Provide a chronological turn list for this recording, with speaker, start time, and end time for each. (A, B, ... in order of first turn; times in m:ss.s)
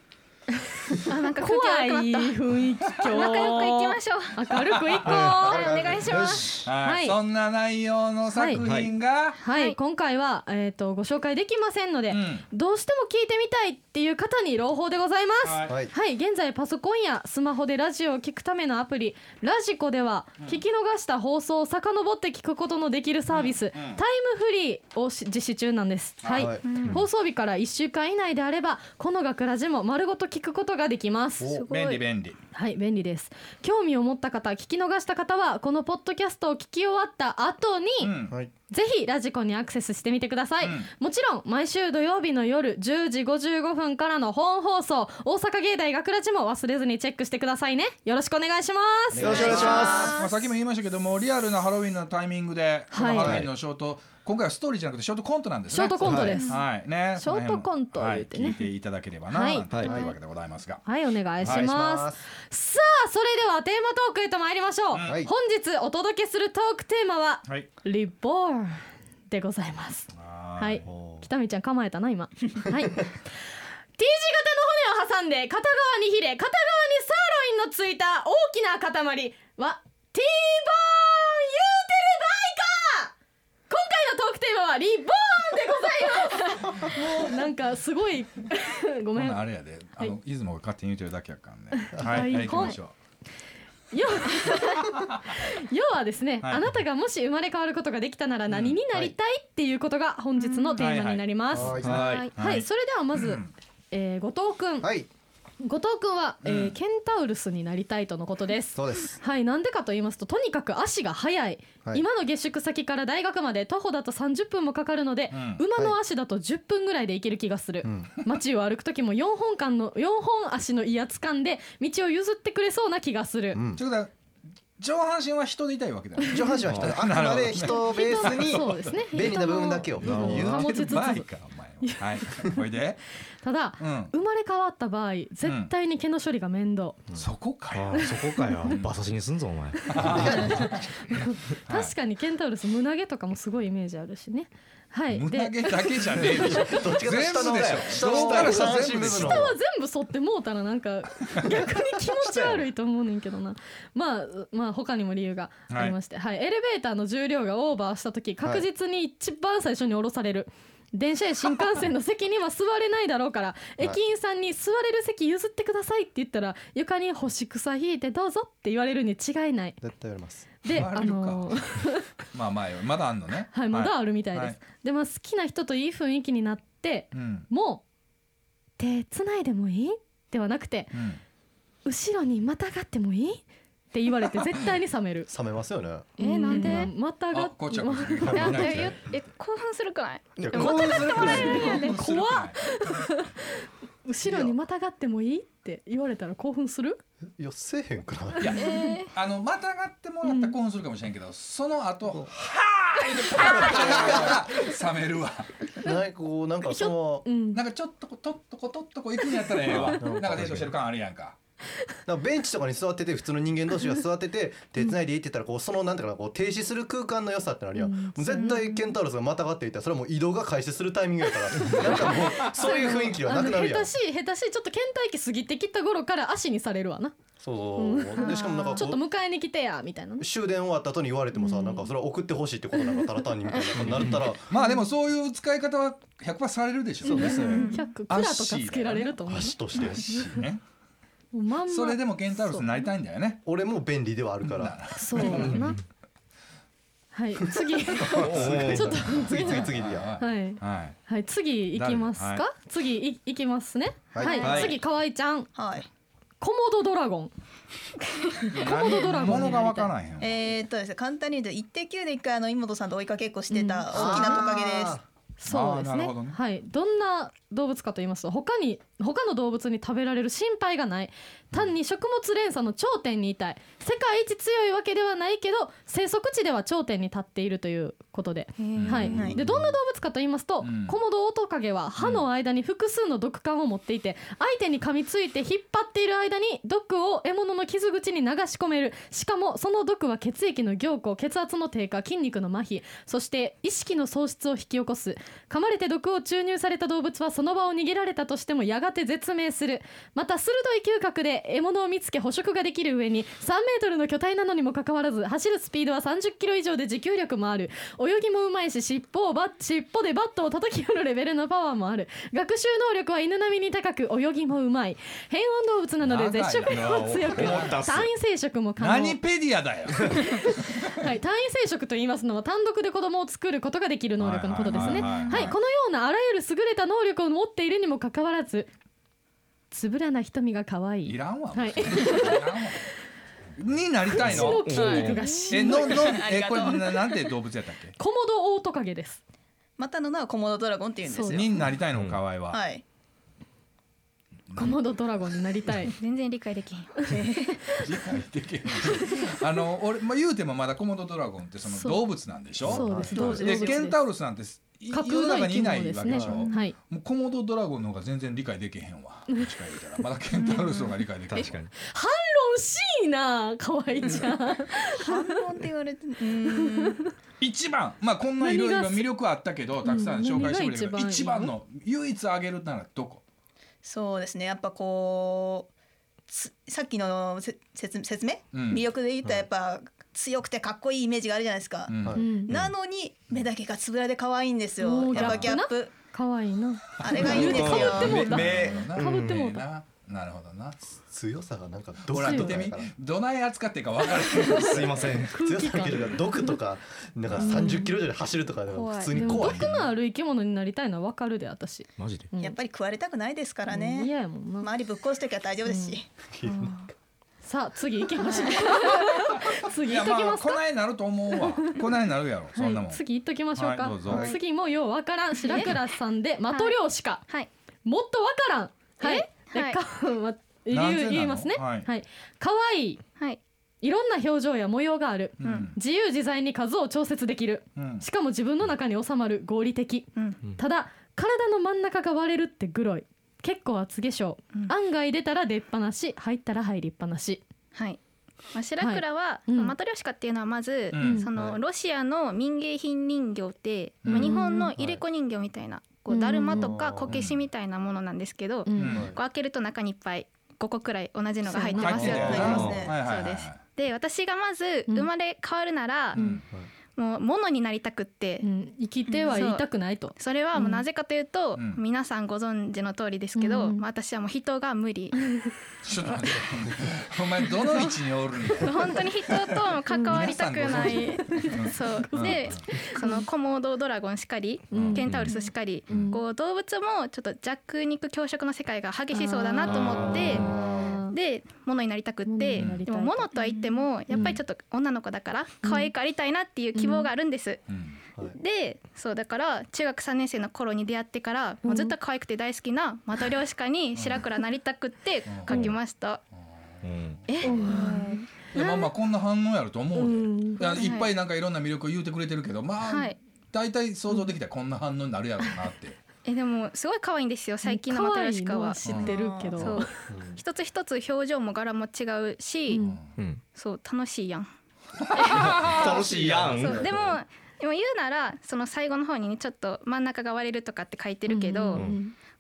0:01.0-0:05.7 A
0:01.1-0:02.4 B
0:03.0-0:04.5 B
0:04.6-0:05.9 C
0:05.1-0:05.4 D
0:05.4-0:06.5 B
0:05.4-0:06.1 E
0:06.0-0:06.7 D
0:06.6-0:09.4 C
0:06.8-0:07.2 A
0:08.3-0:08.6 A
0:08.6-0:08.9 D
0:09.4-0:31.7 A
0:09.5-0:09.8 B
0:12.1-0:12.5 C
0:15.4-0:15.8 C
0:15.7-0:15.9 E
0:23.3-0:24.0 C
0:26.2-0:27.0 C
0:26.3-0:26.9 E
0:26.6-0:27.0 B
0:31.4-0:31.7 E
0:31.6-0:32.0 B
0:31.7-0:32.4 C
0:32.5-0:38.1 A
0:38.0-0:38.4 C
0:38.7-0:49.9 A
0:40.6-0:40.9 C
0:49.1-0:50.2 E
0:49.2-0:50.1 D
0:49.2-1:00.8 C
0:49.9-0:50.2 B
0:52.9-0:53.4 A
0:53.2-0:53.5 D
0:55.7-0:56.6 A
0:56.0-0:56.4 D
0:56.3-0:56.6 B
0:57.2-0:58.7 A
0:59.3-1:00.1 A
1:00.8-1:13.2 A
1:01.4-1:02.2 E
1:01.4-1:01.7 C
1:04.9-1:05.2 C
1:05.0-1:05.3 E
1:10.1-1:10.9 C
1:10.8-1:11.3 E
1:14.0-1:23.1 A
1:23.7-1:29.4 A
1:29.2-1:32.9 C
1:31.7-1:32.8 A
1:33.9-1:44.9 A
1:38.5-1:38.8 C
1:40.4-1:40.9 B
1:40.8-1:43.5 C
1:41.5-1:42.2 E
1:41.9-1:42.3 B
1:44.8-1:45.1 E
1:45.6-2:03.6 A
1:46.4-1:46.8 C
1:48.7-1:49.2 E
1:55.3-1:55.6 C
1:57.8-1:58.1 E
2:03.5-2:03.8 E
2:03.8-2:04.1 C
2:04.8-2:09.0 C
2:06.3-2:10.6 E
2:06.7-2:07.0 D
2:07.6-2:11.3 A
2:10.0-2:13.0 C
2:10.0-2:10.6 D
2:11.8-2:12.6 A
2:13.4-2:17.0 A
2:13.8-2:14.1 C
2:15.4-2:15.7 C
2:17.2-2:18.9 C
2:17.7-2:20.7 D
2:18.0-2:18.7 A
2:19.9-2:21.9 C
2:19.9-2:26.9 A
2:25.1-2:29.5 C
2:26.6-2:29.6 E
2:27.4-2:28.6 D
2:28.3-2:49.8 A
2:32.1-2:32.7 D
2:35.7-2:36.0 C
2:49.8-2:50.5 E
2:50.6-2:52.1 A
2:50.7-2:51.7 C
2:52.3-2:54.6 C
2:53.5-2:57.8 A
2:57.1-2:57.5 C
2:58.8-3:01.0 A
3:00.9-3:01.2 C
3:01.8-3:05.3 A
3:05.3-3:06.2 E
3:06.2-3:06.9 B
3:06.2-3:08.8 A
3:07.3-3:09.2 C
3:08.3-3:12.0 B
3:10.4-3:11.3 D
3:10.5-3:11.8 E
3:11.1-3:17.0 A
3:11.2-3:12.8 C
3:14.2-3:14.6 E
3:17.4-3:18.6 E
3:18.4-3:19.0 A
3:18.4-3:25.7 C
3:18.5-3:19.1 B
3:20.2-3:20.6 A
3:23.7-3:24.4 E
3:25.8-3:27.3 E
3:26.7-3:27.6 A
3:27.5-3:31.4 C
3:29.4-3:29.9 A
3:29.7-3:30.7 D
3:30.0-3:30.4 E
3:32.1-3:43.9 E
3:37.8-3:38.9 A
3:41.6-3:47.2 A
3:41.7-3:42.3 C
3:47.4-3:49.0 E
3:47.8-3:50.3 A
3:48.2-3:48.8 B
3:50.2-3:54.5 E
3:51.4-3:51.9 A
3:53.8-4:00.6 C
3:54.6-3:54.8 A
3:57.0-3:57.8 E
3:57.1-3:59.6 A
3:57.4-3:57.8 B
3:59.3-4:00.1 E
4:01.3-4:02.7 A
4:01.7-4:03.4 C
4:03.5-4:05.6 E
4:04.4-4:05.7 C
4:04.9-4:05.8 A
4:05.4-4:05.7 D
4:07.1-4:15.5 A
4:07.9-4:10.2 E
4:08.2-4:09.2 D
4:08.2-4:08.6 C
4:09.3-4:11.0 C
4:11.7-4:12.4 C
4:14.1-4:14.6 E
4:14.4-4:14.8 D
4:15.6-4:15.9 F
4:16.4-4:17.3 A
4:18.1-4:18.6 B
4:18.5-4:20.4 C
4:18.6-4:19.9 A
4:20.2-4:25.0 F
4:23.5-4:24.4 A
4:23.9-4:25.0 E
4:25.4-5:19.2 A
4:25.5-4:26.4 C
4:38.6-4:39.1 B
4:38.8-4:39.7 C
4:39.0-4:39.4 F
4:40.6-4:41.0 C
4:42.0-4:42.3 C
5:16.0-5:17.9 C
5:16.7-5:18.1 D
5:18.8-5:21.0 C
5:20.1-5:28.7 A
5:24.2-5:25.6 C
5:25.0-5:25.6 B
5:29.7-5:32.4 A
5:31.1-5:32.9 C
5:33.6-5:38.0 C
5:34.1-5:36.2 A
5:34.2-5:35.2 D
5:35.4-5:37.1 F
5:38.0-5:39.2 A
5:39.8-5:41.7 F
5:41.0-5:41.4 A
5:41.3-5:42.6 C
5:41.9-5:42.2 D
5:42.5-5:42.8 F
5:44.5-5:44.8 C
5:44.6-5:46.0 A
5:45.9-5:47.5 B
5:47.1-5:47.5 F
5:47.8-6:01.6 C
5:48.8-5:49.2 A
5:51.7-5:52.0 A
5:52.7-5:53.4 E
5:52.7-5:54.0 A
5:54.9-5:56.8 A
5:56.1-5:56.5 E
6:01.3-6:01.7 D
6:01.8-6:05.4 A
6:04.0-6:04.3 F
6:04.9-6:07.0 F
6:06.5-6:07.1 A
6:07.4-6:13.2 C
6:08.4-6:09.1 A
6:09.8-6:11.5 A
6:13.8-6:15.7 F
6:16.3-6:25.9 F
6:18.5-6:18.9 C
6:21.9-6:22.7 C
6:22.0-6:22.4 E
6:22.2-6:22.5 A
6:24.8-6:29.6 A
6:25.2-6:25.4 C
6:27.0-6:28.3 F
6:27.0-6:30.8 C
6:27.3-6:29.6 D
6:31.0-6:32.9 E
6:32.1-6:35.2 C
6:32.1-6:32.6 A
6:34.3-6:36.6 A
6:34.6-6:35.4 D
6:35.3-6:39.7 E
6:37.4-6:38.0 A
6:38.7-6:39.2 B
6:39.1-6:42.6 A
6:39.2-6:39.9 C
6:42.0-6:42.3 D
6:42.4-6:46.1 F
6:43.7-6:44.7 A
6:45.6-6:46.0 A
6:46.2-6:46.8 E
6:46.4-6:46.9 B
6:47.4-6:50.6 A
6:49.8-6:53.0 C
6:52.6-6:57.3 A
6:53.6-6:54.3 C
6:54.0-6:54.4 E
6:55.4-6:55.8 B
6:56.5-6:56.8 B
6:57.8-7:03.0 A
6:59.0-6:59.8 B
7:00.7-7:01.9 C
7:03.8-7:17.4 A
7:05.4-7:05.8 C
7:05.4-7:05.7 B
7:07.8-7:08.0 C
7:17.7-7:18.0 B
7:18.5-7:36.4 B
7:18.8-7:19.8 A
7:20.9-7:21.3 C
7:21.0-7:21.3 A
7:24.0-7:24.4 C
7:24.1-7:24.7 A
7:24.7-7:25.0 E
7:26.1-7:26.7 A
7:26.5-7:27.2 E
7:27.1-7:27.4 C
7:28.6-7:29.0 A
7:28.8-7:29.1 C
7:28.8-7:29.2 E
7:31.5-7:32.2 A
7:31.8-7:33.6 C
7:32.1-7:33.0 F
7:32.4-7:32.8 D
7:36.2-7:36.4 A
7:36.2-7:36.4 C
7:36.9-7:38.5 B
7:38.4-7:40.8 A
7:39.1-7:45.3 B
7:41.6-7:41.8 C
7:43.4-7:43.8 A
7:45.2-7:45.5 A
7:45.8-7:52.6 C
7:48.6-8:00.5 B
7:49.9-7:50.2 A
7:50.8-7:53.3 A
7:54.7-7:56.2 A
7:54.7-7:55.3 C
7:55.9-7:56.1 C
7:59.1-8:01.2 A
7:59.7-8:00.5 C
7:59.9-8:01.0 E
8:01.0-8:07.6 B
8:02.3-8:04.4 A
8:02.6-8:02.8 C
8:05.6-8:05.9 A
8:06.7-8:07.1 A
8:07.7-8:08.0 C
8:08.2-8:16.2 B
8:11.6-8:12.0 A
8:14.0-8:14.2 C
8:15.3-8:15.7 C
8:16.4-8:17.9 C
8:16.8-8:17.2 D
8:17.3-8:18.9 B
8:17.4-8:18.2 A
8:18.5-8:26.0 C
8:20.0-8:21.0 A
8:20.6-8:21.1 B
8:22.8-8:23.2 B
8:26.2-8:32.9 B
8:27.6-8:29.9 A
8:28.8-8:29.2 C
8:29.0-8:29.8 F
8:30.1-8:30.4 E
8:32.7-8:33.0 A
8:32.8-8:33.1 C
8:33.5-8:34.5 B
8:35.0-8:36.8 C
8:35.1-8:36.0 B
8:35.3-8:37.1 D
8:35.9-8:37.2 E
8:36.6-8:42.0 B
8:41.3-8:42.2 A